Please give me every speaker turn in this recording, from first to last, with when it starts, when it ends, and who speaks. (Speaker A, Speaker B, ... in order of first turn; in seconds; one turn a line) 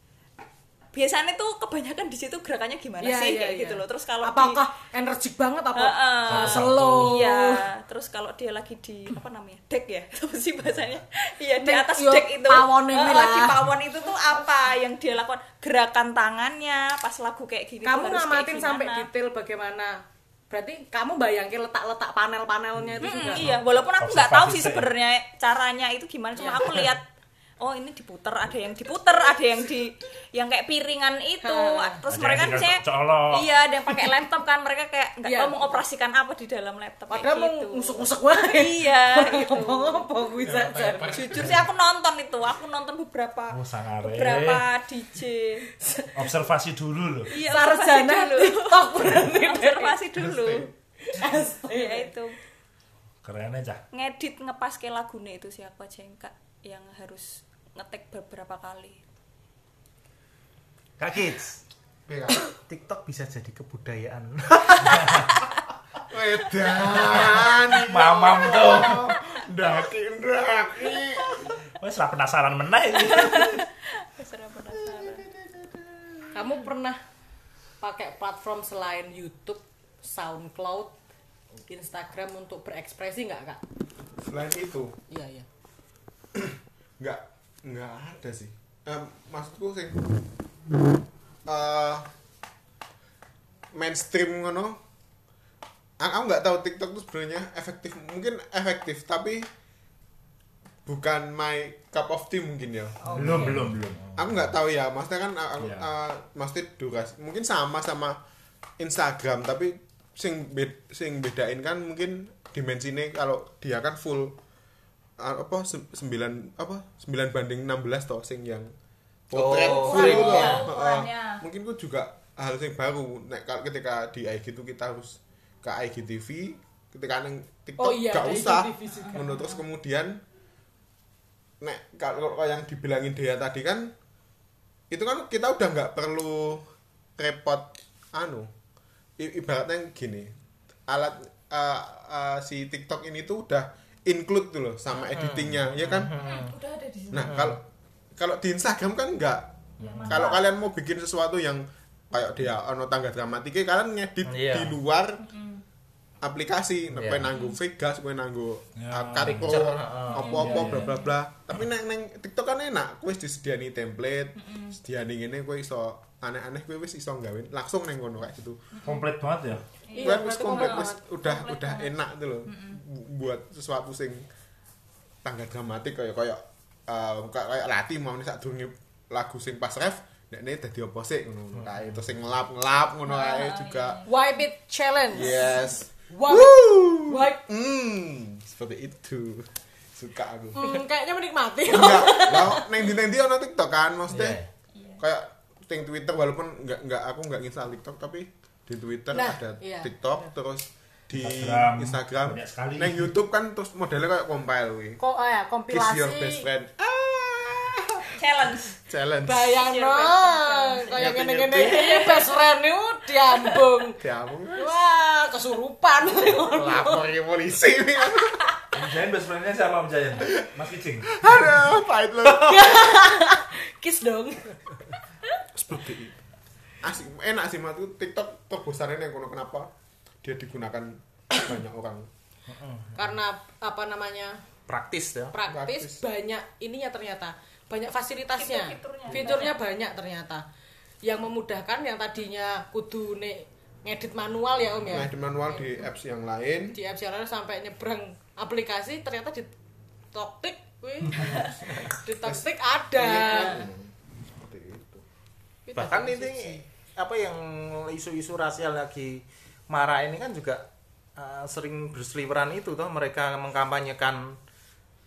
Speaker A: 0.9-4.6
Speaker B: 3.0-7.7
Speaker A: 5.8-19.1
Speaker C: 6.3-7.2
Speaker B: 11.6-13.6
Speaker B: 17.8-20.0
Speaker B: 20.5-23.5
Speaker A: 23.0-27.1
Speaker C: 23.0-24.9
Speaker B: 26.4-26.8
Speaker A: 27.6-40.1
Speaker B: 31.4-32.0
Speaker C: 32.1-33.5
Speaker B: 35.2-35.8
Speaker B: 37.1-41.2
Speaker D: 40.4-41.6
Speaker A: 41.1-45.7
Speaker C: 43.5-44.6
Speaker B: 45.8-46.4
Speaker C: 46.1-47.3
Speaker A: 47.3-50.7
Speaker B: 47.4-50.0
Speaker D: 50.3-50.7
Speaker B: 51.0-52.1
Speaker A: 51.7-52.4
Speaker C: 53.2-53.8
Speaker A: 53.9-59.0
Speaker E: 61.0-61.6
Speaker D: 62.1-62.4
Speaker E: 62.6-65.5
Speaker D: 66.1-71.5
Speaker C: 67.8-69.1
Speaker C: 71.8-73.6
Speaker A: 73.0-75.3
Speaker D: 74.9-76.3
Speaker B: 76.3-77.0
Speaker B: 77.8-80.9
Speaker B: 81.7-83.6
Speaker D: 84.2-85.0
Speaker B: 85.1-85.5
Speaker D: 86.3-90.0
Speaker D: 91.5-92.1
Speaker D: 93.7-94.8
Speaker D: 96.0-99.5
Speaker D: 100.9-103.6
Speaker C: 103.1-104.5
Speaker A: 103.2-103.7
Speaker D: 104.2-108.2
Speaker C: 105.6-105.9
Speaker D: 108.8-114.3
Speaker D: 115.2-118.7
Speaker D: 119.3-130.2
Speaker E: 119.3-120.7
Speaker A: 119.8-121.4
Speaker B: 127.8-129.5
Speaker D: 131.6-133.9
Speaker D: 134.9-138.5
Speaker D: 139.2-140.3
Speaker D: 140.9-146.1
Speaker E: 145.1-146.6
Speaker A: 146.2-147.4
Speaker D: 147.1-147.6
Speaker E: 147.2-147.6
Speaker D: 148.2-149.5
Speaker A: 149.8-150.4
Speaker D: 150.0-155.2
Speaker E: 154.2-154.8
Speaker A: 155.3-155.6
Speaker D: 156.2-168.7
Speaker E: 156.9-157.2
Speaker A: 157.3-157.6
Speaker C: 158.8-159.6
Speaker E: 159.2-160.7
Speaker A: 160.2-161.1
Speaker C: 160.3-160.9
Speaker A: 164.4-164.8
Speaker C: 168.8-169.6
Speaker A: 169.9-171.9
Speaker B: 169.9-171.0
Speaker D: 170.0-174.3
Speaker A: 172.5-172.8
Speaker D: 175.2-184.0
Speaker A: 183.1-184.1
Speaker B: 184.1-187.4
Speaker D: 185.1-190.8
Speaker B: 190.6-192.7
Speaker D: 191.7-194.4
Speaker E: 194.1-194.5
Speaker A: 194.8-195.0
Speaker D: 195.0-205.0
Speaker B: 199.1-200.3
Speaker C: 201.2-203.2
Speaker B: 205.0-206.5
Speaker D: 205.7-208.2
Speaker A: 208.2-208.8
Speaker D: 208.8-209.7
Speaker B: 209.2-214.0
Speaker A: 209.6-211.1
Speaker E: 211.0-211.5
Speaker D: 211.1-211.8
Speaker A: 211.6-212.3
Speaker D: 214.0-214.8
Speaker B: 214.6-217.1
Speaker D: 216.1-218.5
Speaker C: 218.7-221.5
Speaker D: 220.2-220.5
Speaker D: 221.1-223.1
Speaker B: 222.2-225.0
Speaker D: 225.6-226.1
Speaker D: 226.8-229.7
Speaker D: 230.2-232.1
Speaker E: 232.5-233.0
Speaker B: 232.9-234.4
Speaker E: 234.7-235.4
Speaker B: 235.3-240.4
Speaker D: 235.5-236.0
Speaker A: 238.4-239.6
Speaker B: 241.0-245.1
Speaker D: 244.8-246.8
Speaker B: 246.7-249.5
Speaker B: 250.1-253.7
Speaker D: 251.2-252.4
Speaker D: 252.9-255.0
Speaker B: 255.7-256.6
Speaker E: 255.7-264.4